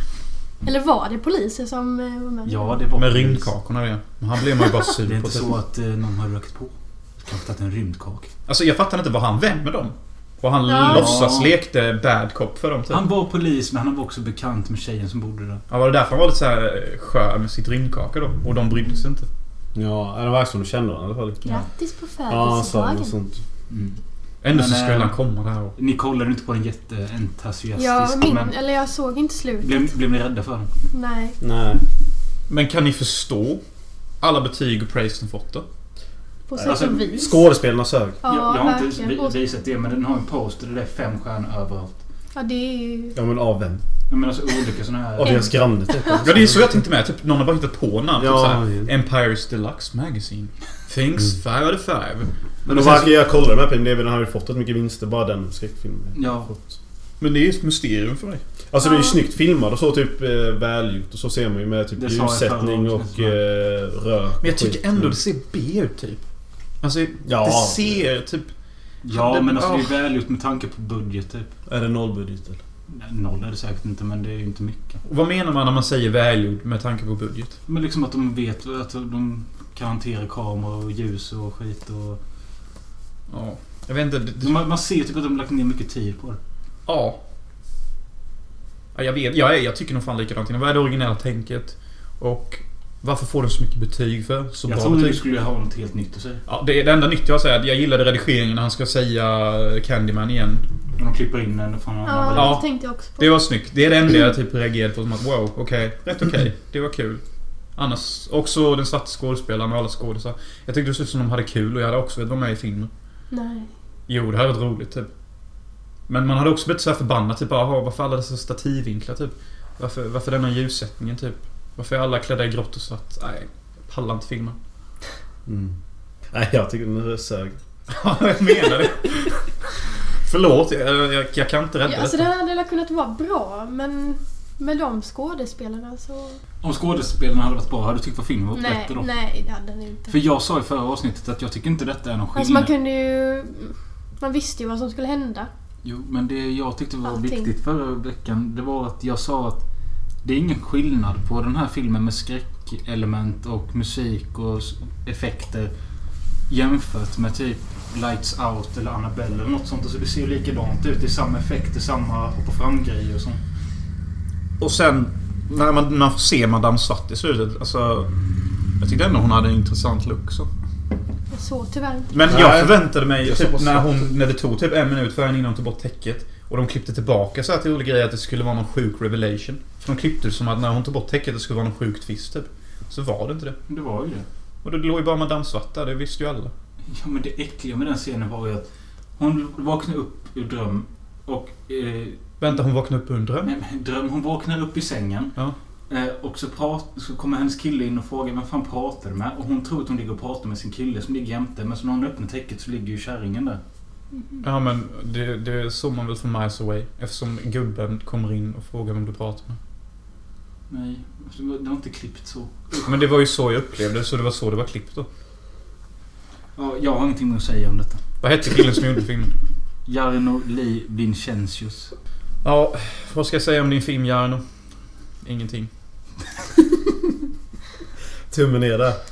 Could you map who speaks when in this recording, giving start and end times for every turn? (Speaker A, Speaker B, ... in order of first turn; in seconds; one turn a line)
Speaker A: 0.6-2.7
Speaker B: 2.5-3.5
Speaker C: 2.9-5.5
Speaker B: 5.0-8.3
Speaker C: 8.5-13.0
Speaker A: 10.7-11.1
Speaker B: 10.8-11.5
Speaker B: 12.9-15.6
Speaker C: 15.7-19.3
Speaker D: 19.7-21.5
Speaker A: 21.4-23.1
Speaker D: 22.3-23.4
Speaker B: 23.7-25.2
Speaker C: 24.4-25.7
Speaker B: 25.8-28.5
Speaker A: 27.8-29.9
Speaker B: 29.6-30.7
Speaker A: 30.9-31.4
Speaker D: 31.4-31.8
Speaker C: 32.5-33.6
Speaker C: 34.2-35.6
Speaker A: 36.5-37.4
Speaker D: 36.5-38.2
Speaker B: 36.6-37.1
Speaker A: 38.2-39.3
Speaker B: 38.2-42.0
Speaker A: 42.3-43.2
Speaker D: 43.1-43.8
Speaker B: 44.1-45.5
Speaker D: 45.1-46.8
Speaker A: 45.2-46.3
Speaker C: 46.2-53.1
Speaker D: 48.2-48.9
Speaker D: 52.7-56.5
Speaker B: 56.1-56.5
Speaker C: 57.2-58.4
Speaker D: 58.7-65.1
Speaker A: 58.8-59.2
Speaker B: 62.0-63.4
Speaker C: 64.4-66.2
Speaker C: 66.8-68.5
Speaker D: 67.2-68.0
Speaker B: 69.0-71.5
Speaker C: 69.1-69.9
Speaker D: 71.7-72.6
Speaker B: 72.9-75.0
Speaker C: 75.0-77.6
Speaker B: 77.7-82.2
Speaker C: 83.3-84.6
Speaker B: 84.4-86.4
Speaker C: 86.9-87.2
Speaker C: 88.9-95.2
Speaker B: 94.6-96.4
Speaker C: 96.5-100.6
Speaker B: 101.0-102.6
Speaker A: 102.0-103.4
Speaker C: 102.3-102.6
Speaker C: 103.2-107.2
Speaker C: 107.8-112.9
Speaker A: 113.3-113.7
Speaker C: 114.1-115.1
Speaker C: 116.1-124.6
Speaker D: 125.5-125.7
Speaker D: 126.3-127.5
Speaker C: 127.9-129.3
Speaker C: 130.2-132.3
Speaker A: 131.8-136.4
Speaker B: 136.6-139.1
Speaker A: 138.5-140.2
Speaker B: 140.1-142.7
Speaker A: 142.3-145.5
Speaker B: 145.8-149.6
Speaker A: 147.1-147.5
Speaker B: 150.2-155.7
Speaker B: 156.5-163.4
Speaker C: 164.6-168.1
Speaker C: 168.8-170.5
Speaker A: 171.3-172.1
Speaker C: 172.1-183.6
Speaker D: 172.3-174.0
Speaker B: 183.7-184.2
Speaker C: 184.6-186.5
Speaker B: 186.9-188.7
Speaker B: 189.2-192.2
Speaker C: 192.4-193.5
Speaker B: 193.4-195.3
Speaker B: 195.9-203.6
Speaker C: 204.4-209.6
Speaker B: 210.7-213.0
Speaker C: 212.8-215.1
Speaker B: 216.6-218.0
Speaker C: 218.2-219.3
Speaker B: 219.8-221.9
Speaker C: 222.4-224.4
Speaker C: 225.2-225.7
Speaker D: 228.3-229.0